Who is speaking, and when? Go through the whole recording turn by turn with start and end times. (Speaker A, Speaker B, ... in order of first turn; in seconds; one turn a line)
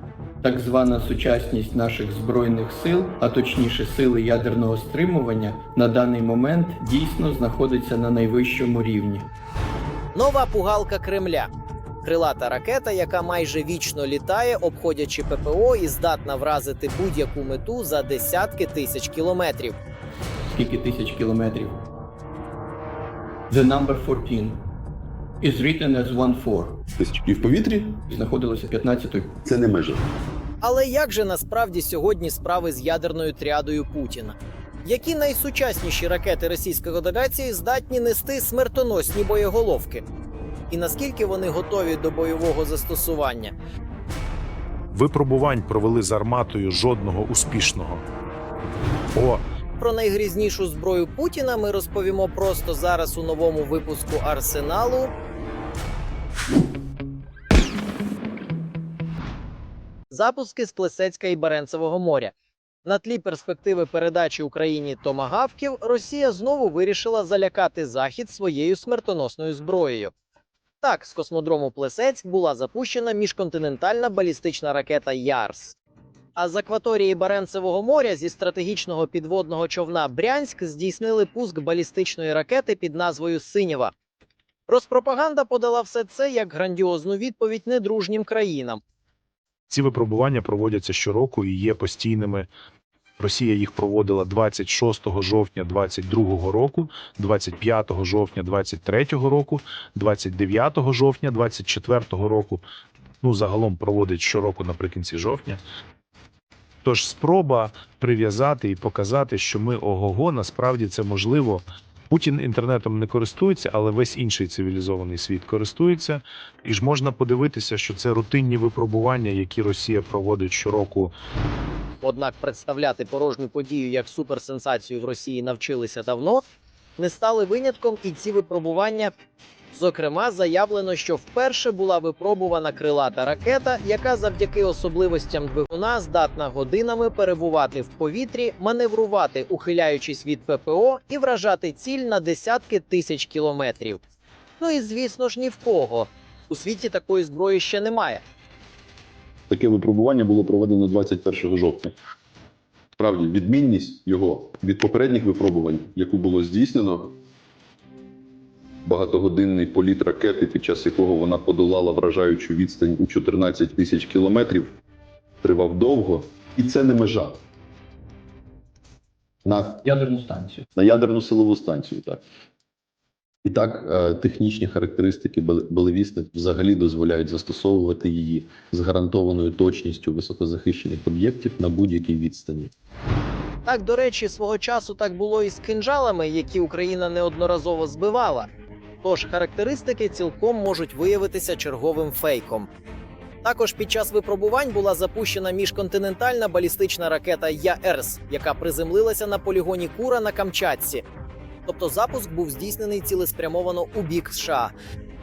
Speaker A: 0.4-9.3
Speaker B: 10.1-11.5
Speaker B: 12.0-19.8
Speaker A: 20.5-21.8
Speaker A: 23.5-24.6
Speaker A: 25.4-26.8
Speaker C: 27.0-27.9
Speaker A: 27.9-29.4
Speaker C: 29.5-30.0
Speaker B: 30.6-40.0
Speaker B: 40.7-43.5
Speaker D: 44.9-48.0
Speaker D: 49.1-49.4
Speaker B: 49.8-55.1
Speaker B: 60.1-62.3
Speaker B: 62.9-70.1
Speaker B: 70.8-75.8
Speaker B: 76.3-83.9
Speaker B: 84.7-88.8
Speaker D: 89.7-92.5
Speaker D: 93.2-102.6
Speaker D: 103.2-105.6
Speaker D: 106.8-121.1
Speaker B: 122.0-126.4
Speaker B: 127.0-129.1
Speaker B: 129.7-144.0
Speaker B: 144.6-148.2
Speaker C: 149.5-151.9
Speaker C: 153.0-157.1
Speaker C: 158.8-164.8
Speaker C: 165.4-167.4
Speaker C: 169.4-169.8
Speaker A: 169.8-170.6
Speaker C: 170.8-172.2
Speaker C: 173.4-182.7
Speaker B: 183.7-188.5
Speaker B: 189.0-192.7
Speaker B: 193.4-201.0
Speaker B: 201.7-204.7